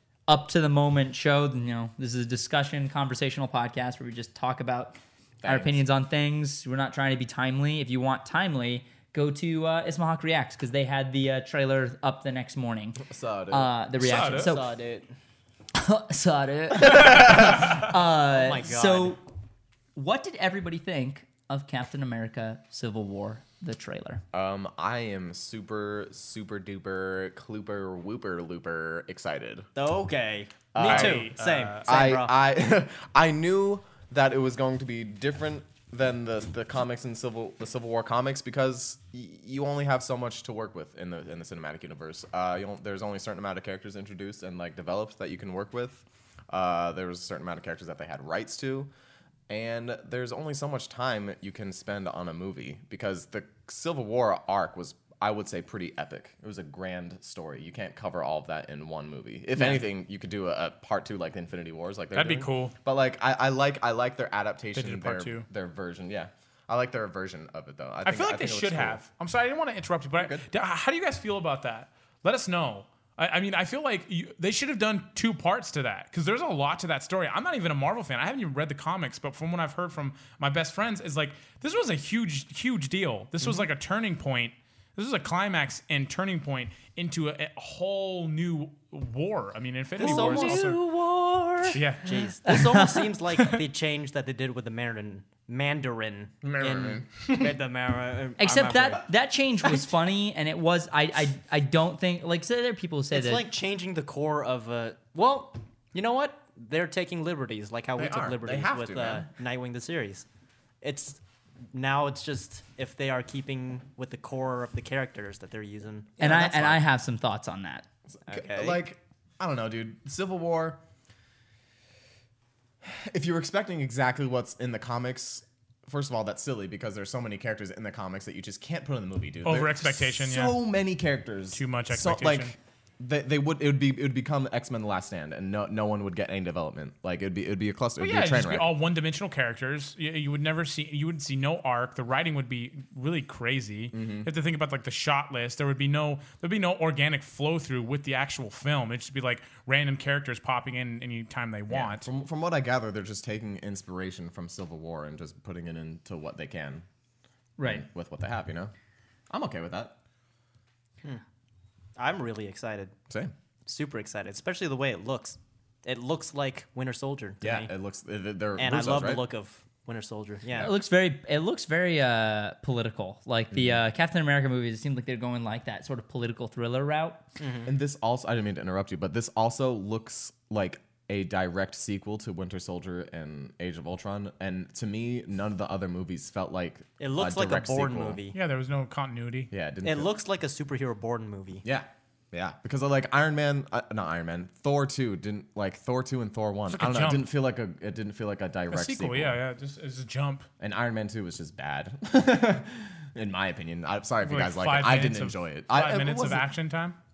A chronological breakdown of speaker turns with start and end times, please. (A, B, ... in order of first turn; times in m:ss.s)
0:00.3-0:14.6 A
0:05.4-0:05.8 B
0:13.0-0:14.3 B
0:14.0-0:14.6 C
0:14.3-0:15.1 D
0:15.7-0:19.2 A
0:16.9-0:17.5 B
0:18.3-0:19.2 D
0:20.0-0:24.2 A
0:24.3-0:29.7 B
0:29.8-0:32.3 D
0:30.7-0:31.3 B
0:30.8-0:31.9 C
0:31.8-0:48.9 B
0:49.5-1:09.0 B
1:02.2-1:02.8 C
1:04.8-1:05.5 C
1:08.0-1:30.8 C
1:10.2-1:10.4 B
1:30.0-1:39.0 D
1:30.0-1:30.7 A
1:31.7-1:32.4 C
1:32.5-1:33.1 A
1:33.4-1:33.6 C
1:36.4-1:37.5 B
1:38.4-1:43.4 A
1:43.1-1:50.3 D
1:48.0-1:49.3 B
1:50.8-1:56.2 D
1:56.2-1:56.8 B
1:56.2-1:57.9 A
1:58.1-2:00.8 B
1:58.3-1:58.8 D
2:02.8-2:18.7 B
2:09.4-2:10.6 C
2:11.5-2:12.5 C
2:18.0-2:32.1 C
2:23.9-2:24.3 B
2:31.7-2:36.8 B
2:37.6-2:37.9 A
2:37.6-2:38.7 B
2:39.3-2:40.0 B
2:42.0-2:43.0 D
2:43.7-2:47.7 D
2:47.4-2:49.2 B
2:48.6-2:50.7 D
2:50.6-2:57.2 A
2:57.4-2:57.7 D
2:57.6-3:08.2 B
3:07.0-3:08.4 D
3:08.3-3:09.5 C
3:09.5-3:10.1 B
3:09.8-3:11.6 D
3:11.6-3:19.4 B
3:16.7-3:17.3 C
3:18.7-3:20.5 C
3:20.6-3:26.5 B
3:24.2-3:27.0 C